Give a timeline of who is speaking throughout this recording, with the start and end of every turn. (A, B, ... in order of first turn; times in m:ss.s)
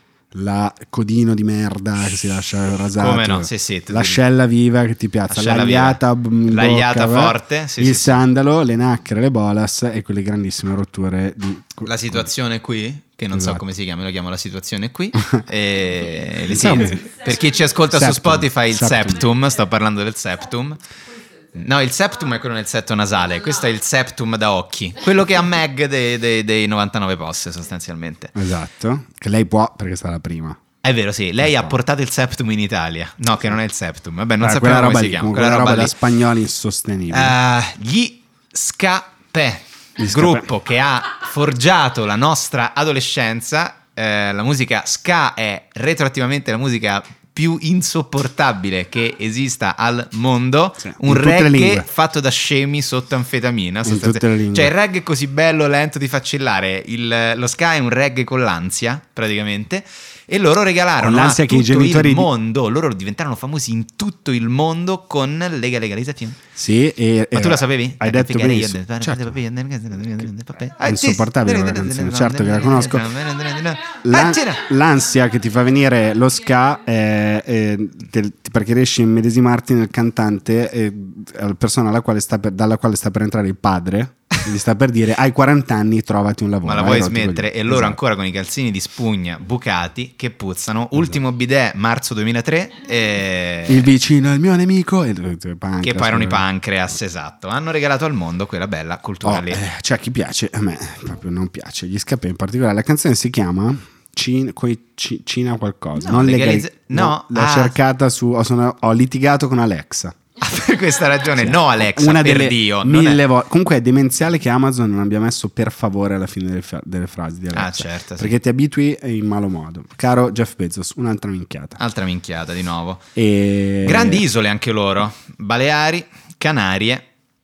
0:00.3-0:12.3 A
0:03.0-0:04.2 B
0:05.3-0:08.2 B
0:11.8-0:20.8 B
0:13.3-0:13.6 A
0:16.5-0:17.0 A
0:17.9-0:19.2 A
0:21.5-0:28.3 B
0:28.4-0:30.6 A
0:30.8-0:35.9 B
0:31.4-0:31.8 A
0:34.4-0:37.4 A
0:37.1-1:06.4 B
0:40.0-0:40.5 A
0:50.8-0:51.9 A
0:53.8-0:54.7 A
1:01.0-1:02.3 A
1:06.6-1:09.4 A
1:07.3-1:14.7 B
1:10.8-1:13.1 A
1:14.0-1:28.0 A
1:26.6-1:33.9 B
1:31.0-1:31.2 A
1:33.7-1:36.4 A
1:35.8-1:39.6 B
1:39.2-1:50.2 A
1:46.0-1:47.8 B
1:50.4-1:53.2 B
1:51.4-2:01.8 A
1:57.5-1:58.3 B
2:01.8-2:03.0 B
2:03.2-2:04.2 A
2:03.8-2:07.0 B